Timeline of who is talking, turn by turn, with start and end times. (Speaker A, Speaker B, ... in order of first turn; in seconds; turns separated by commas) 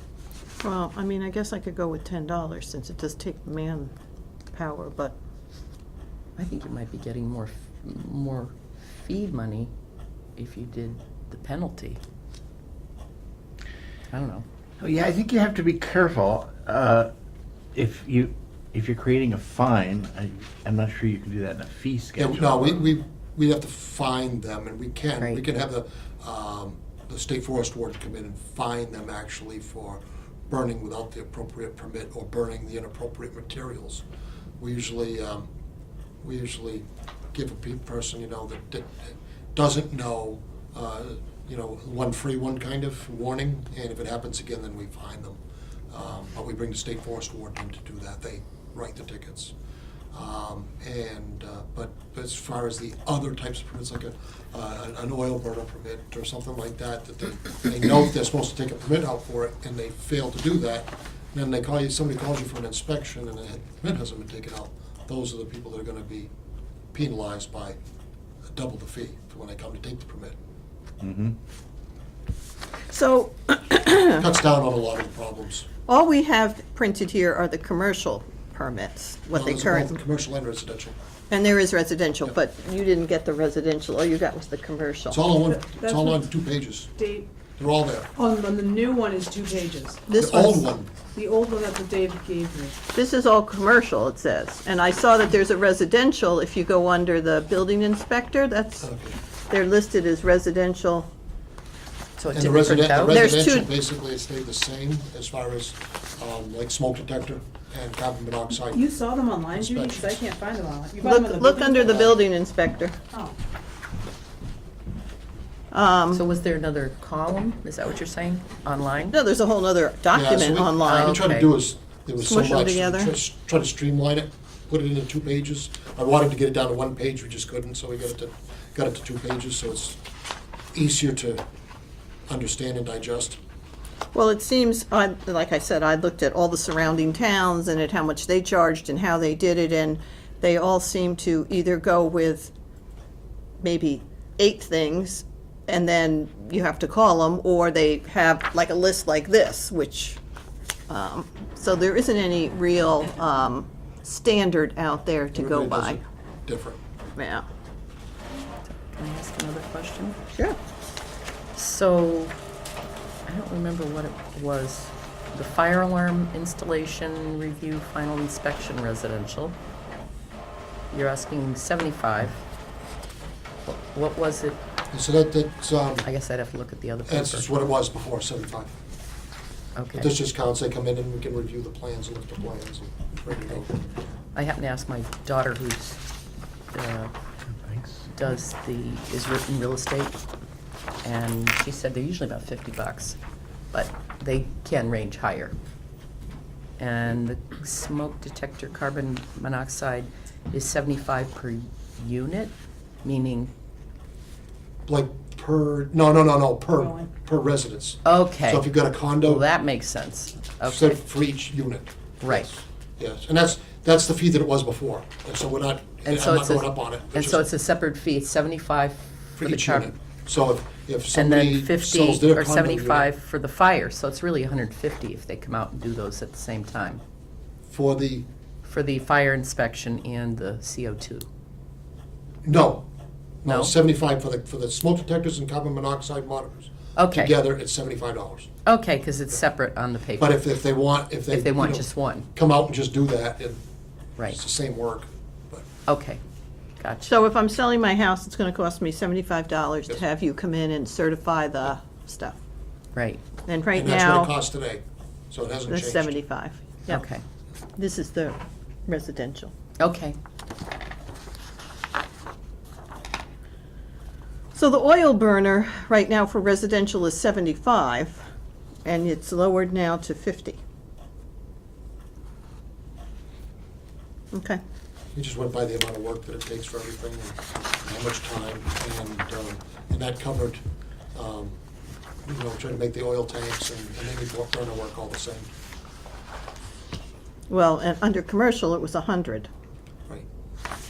Speaker A: 0.6-3.9, Speaker A: 4.5-5.2, Speaker B: 6.4-9.7, Speaker B: 10.3-12.0, Speaker B: 14.1-14.4, Speaker C: 14.8-17.1, Speaker C: 17.7-22.9, Speaker D: 22.2-34.0, Speaker D: 34.6-35.5, Speaker D: 36.2-49.5, Speaker D: 50.1-66.3, Speaker D: 66.9-67.8, Speaker D: 68.5-70.3, Speaker C: 71.0-71.3, Speaker A: 72.9-74.3, Speaker D: 74.2-75.7, Speaker A: 75.9-80.0, Speaker D: 79.3-81.0, Speaker A: 81.3-85.2, Speaker D: 85.1-86.9, Speaker E: 85.4-86.2, Speaker E: 87.0-87.2, Speaker D: 87.6-88.1, Speaker E: 88.2-90.1, Speaker A: 90.1-90.6, Speaker D: 90.2-90.9, Speaker E: 91.0-92.8, Speaker A: 92.9-98.8, Speaker D: 98.8-99.2, Speaker A: 99.5-101.1, Speaker B: 102.2-103.3, Speaker D: 102.3-108.8, Speaker A: 103.1-103.7, Speaker E: 108.7-112.1, Speaker D: 109.5-110.2, Speaker A: 111.0-113.0, Speaker A: 115.7-116.2, Speaker B: 116.1-119.2, Speaker A: 119.1-121.1, Speaker D: 120.1-130.0, Speaker B: 120.8-121.5, Speaker A: 122.2-123.1, Speaker D: 130.7-131.4, Speaker D: 132.3-133.4, Speaker A: 134.1-142.5, Speaker A: 143.6-150.2, Speaker A: 150.9-156.0, Speaker D: 155.3-156.8, Speaker A: 157.2-157.4, Speaker B: 158.7-160.2, Speaker B: 161.5-162.3, Speaker B: 163.3-169.6, Speaker B: 170.9-172.4, Speaker B: 173.7-174.6, Speaker D: 174.9-176.1, Speaker B: 176.0-177.5, Speaker D: 177.1-178.7, Speaker B: 179.8-180.2, Speaker D: 179.9-183.8, Speaker B: 184.3-186.0, Speaker B: 186.7-187.1, Speaker C: 187.6-188.0, Speaker B: 188.1-190.2, Speaker B: 191.0-193.2, Speaker B: 193.7-195.6, Speaker B: 196.8-203.5, Speaker D: 204.9-209.4, Speaker E: 206.8-207.0, Speaker B: 208.0-211.0, Speaker D: 210.6-217.5, Speaker B: 212.2-212.6, Speaker B: 216.0-219.9, Speaker D: 219.4-223.1, Speaker B: 221.1-227.0, Speaker D: 227.7-228.2, Speaker B: 228.6-231.3, Speaker D: 232.4-232.8, Speaker D: 233.4-238.5, Speaker B: 233.4-233.7, Speaker B: 236.9-237.4, Speaker B: 238.6-240.4, Speaker D: 240.2-243.6, Speaker B: 241.3-242.3, Speaker D: 244.3-245.6, Speaker B: 245.9-246.2, Speaker B: 246.8-247.1, Speaker A: 247.0-252.4, Speaker B: 252.9-253.2, Speaker A: 253.5-254.3, Speaker D: 253.7-256.2, Speaker A: 255.7-257.0, Speaker B: 256.9-257.2, Speaker A: 257.8-259.5, Speaker B: 259.8-260.2, Speaker A: 264.5-268.2, Speaker A: 268.8-270.6, Speaker A: 274.3-274.6, Speaker D: 275.1-280.6, Speaker D: 281.1-281.6, Speaker D: 282.2-285.5, Speaker A: 287.5-289.5